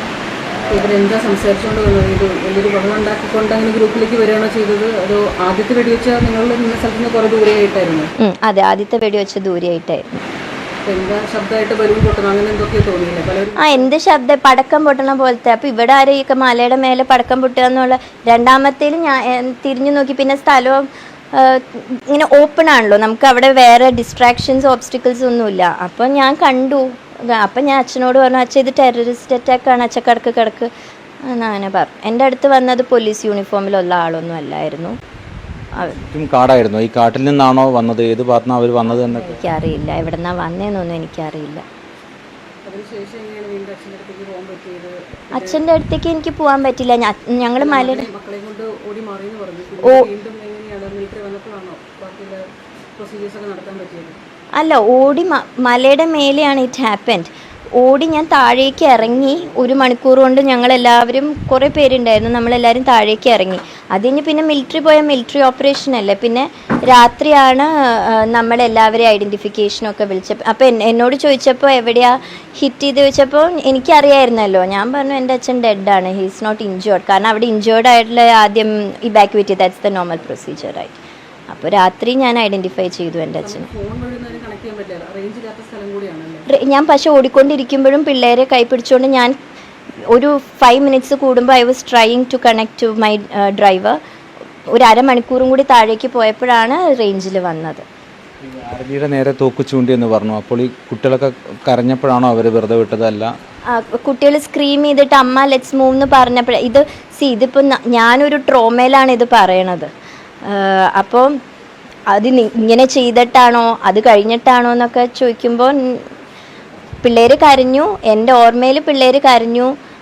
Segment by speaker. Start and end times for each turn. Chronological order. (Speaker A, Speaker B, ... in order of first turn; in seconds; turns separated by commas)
Speaker A: 0.7-8.1, Speaker B: 8.2-10.1, Speaker A: 10.8-13.8, Speaker B: 13.6-30.7, Speaker B: 31.2-35.0, Speaker B: 35.8-36.0, Speaker C: 36.0-39.4, Speaker A: 38.9-39.2, Speaker B: 39.2-41.6, Speaker A: 42.6-45.6, Speaker B: 45.3-48.0, Speaker A: 47.6-52.4, Speaker B: 49.8-50.1, Speaker A: 53.0-54.2, Speaker B: 54.5-83.7, Speaker A: 83.4-86.5, Speaker B: 86.5-89.3, Speaker B: 90.0-94.0, Speaker B: 94.7-97.8, Speaker C: 98.4-103.3, Speaker B: 103.7-109.9, Speaker B: 110.4-111.3, Speaker B: 112.1-116.1, Speaker B: 117.0-119.7